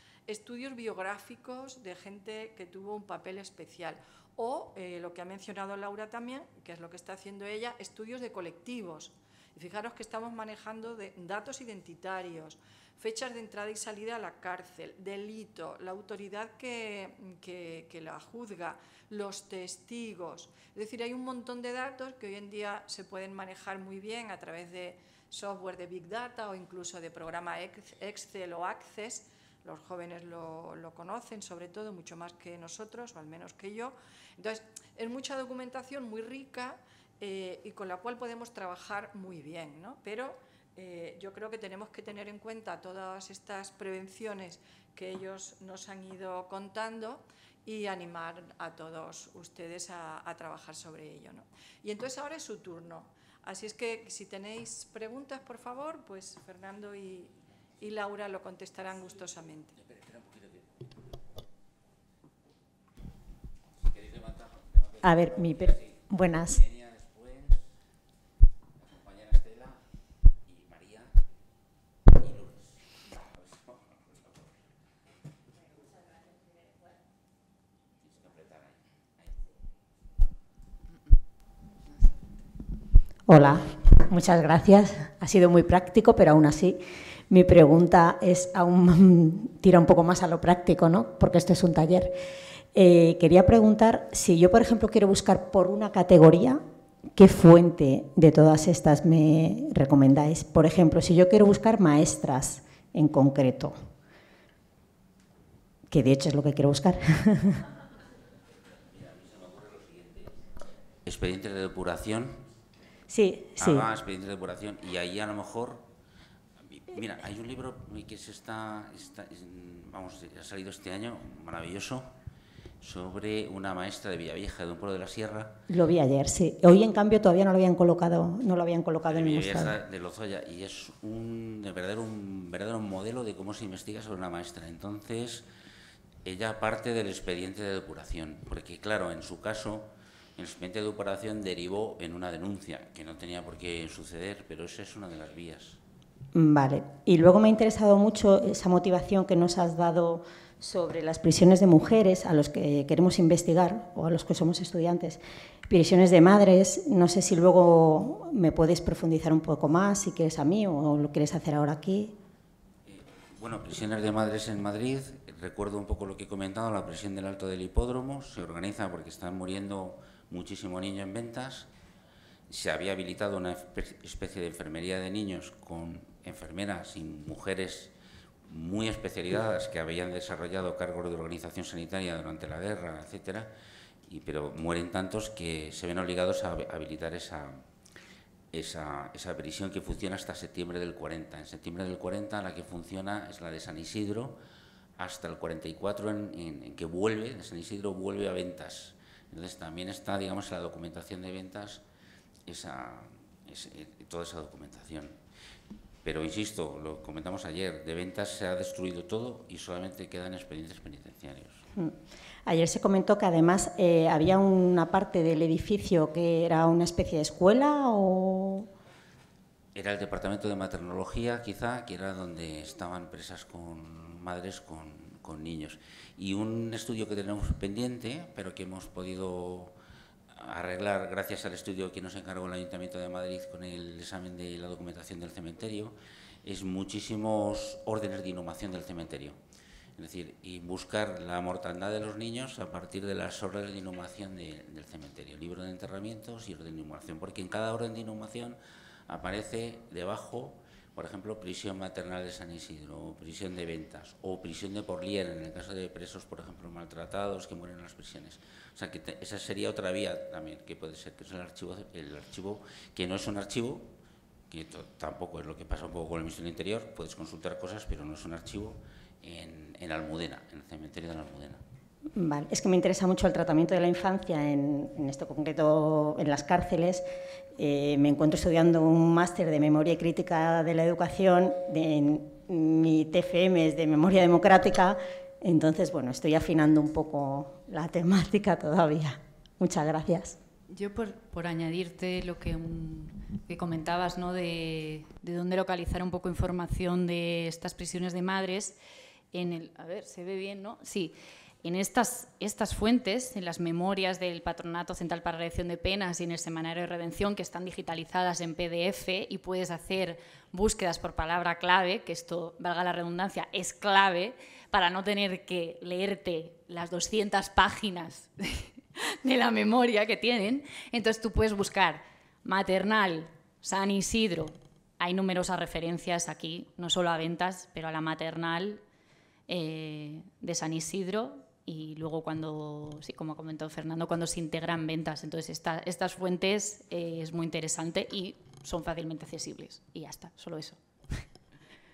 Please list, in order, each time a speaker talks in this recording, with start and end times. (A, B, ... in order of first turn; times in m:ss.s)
0:00.3-0:59.8 A
0:59.8-1:00.7 B
1:03.8-1:07.7 B
1:05.0-1:06.6 C
1:08.8-1:09.8 B
1:10.5-1:11.2 B
1:12.2-1:12.8 B
1:13.3-1:14.5 B
1:18.1-1:19.3 B
1:23.3-1:32.2 C
1:32.7-1:36.6 C
1:37.2-1:43.8 C
1:45.9-1:47.6 C
1:48.9-1:50.3 B
1:51.0-1:52.4 B
1:53.1-1:53.9 C
1:53.6-1:55.9 B
1:56.6-2:02.1 B
2:02.8-2:05.6 B
2:05.7-2:09.8 C
2:09.0-2:15.4 B
2:16.2-2:25.8 B
2:26.4-2:42.2 C
2:42.9-2:51.7 B
2:52.5-2:57.9 B
2:58.5-3:03.5 B
3:04.1-3:07.6 B
3:08.5-3:14.4 B
3:15.0-3:21.8 B
3:22.5-3:25.2 B
3:26.0-3:31.6 B
3:31.8-3:38.7 C
3:39.8-3:49.7 B
3:50.3-3:59.4 B
4:00.0-4:08.6 B
4:09.1-4:23.9 B
4:24.5-4:31.6 B
4:32.2-4:37.0 C
4:37.6-4:50.4 C
4:50.7-4:58.8 D
4:59.3-5:28.8 D
5:29.5-5:41.2 D